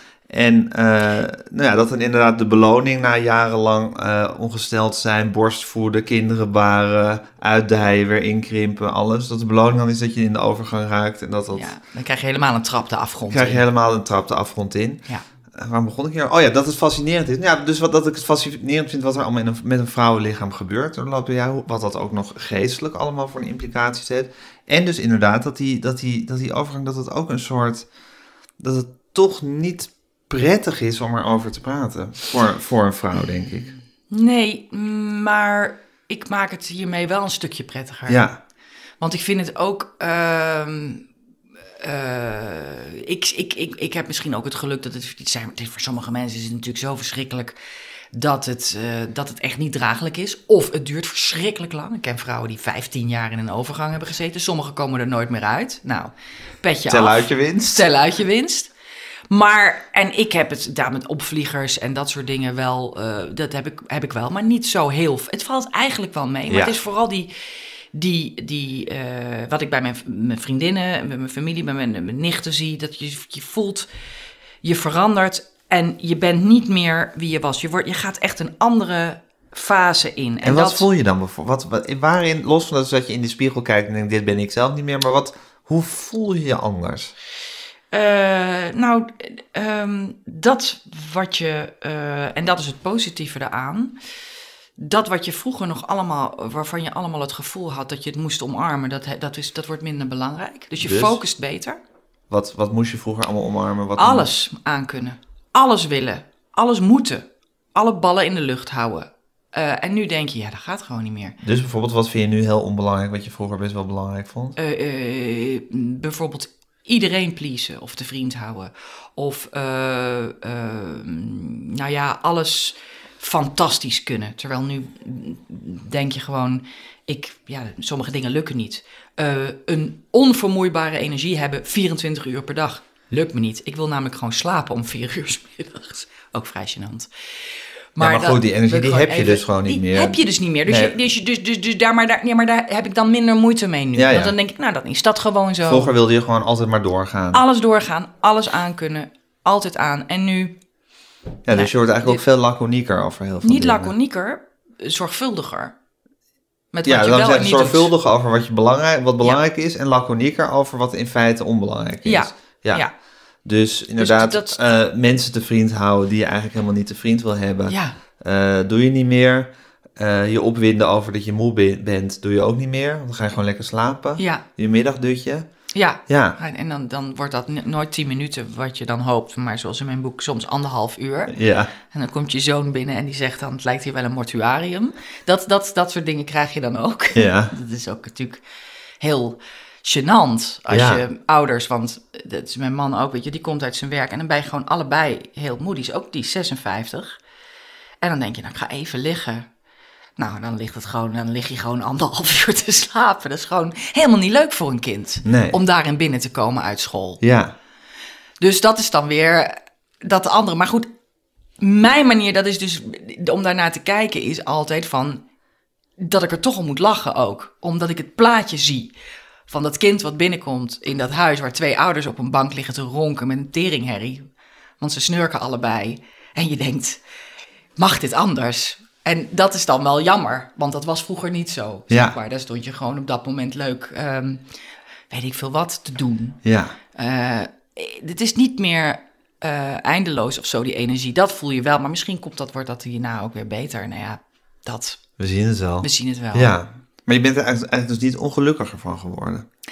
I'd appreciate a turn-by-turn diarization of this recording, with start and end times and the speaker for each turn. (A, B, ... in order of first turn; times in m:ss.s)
0:00.3-0:11.7 A
0:11.5-0:13.6 B
0:13.3-0:27.9 A
0:28.6-0:33.7 A
0:34.1-0:38.2 B
0:38.1-0:38.4 A
0:39.0-0:41.0 B
0:41.8-0:47.6 B
0:48.1-0:58.7 B
0:56.9-0:57.8 A
0:59.3-1:07.3 B
1:06.5-1:06.8 A
1:07.9-1:13.9 B
1:14.6-1:20.8 B
1:20.4-1:27.1 A
1:27.9-1:33.9 B
1:34.8-1:41.8 B
1:40.8-1:41.2 A
1:42.3-1:44.3 A
1:44.0-1:51.4 B
1:51.4-1:54.6 A
1:54.6-2:17.1 B
2:18.0-2:25.9 B
2:18.0-2:20.9 A
2:23.9-2:24.3 A
2:25.6-2:27.4 A
2:27.3-2:30.5 B
2:31.4-2:33.9 A
2:31.5-2:32.2 B
2:33.4-2:35.7 B
2:36.7-2:37.9 B
2:36.8-2:42.9 A
2:42.0-2:42.9 B
2:43.4-2:55.5 A
2:44.0-2:44.6 B
2:47.7-2:48.0 B
2:54.2-2:54.4 B
2:55.7-3:01.4 B
2:56.0-2:56.4 A
3:01.3-3:01.7 A
3:01.9-3:08.4 B
3:07.1-3:07.5 A
3:09.0-3:17.2 B
3:10.7-3:11.0 A
3:18.0-3:19.5 B
3:20.2-3:27.2 B
3:25.2-3:25.6 A
3:27.2-3:27.5 A
3:28.4-3:30.9 B
3:31.6-3:35.2 B
3:36.0-3:38.9 B
3:39.5-3:44.2 B
3:44.8-3:47.0 B
3:47.8-3:54.4 B
3:51.9-3:52.1 A
3:55.1-3:56.4 B
3:56.4-3:56.7 A
3:56.9-4:05.0 B
4:05.2-4:09.4 A
4:05.8-4:06.5 B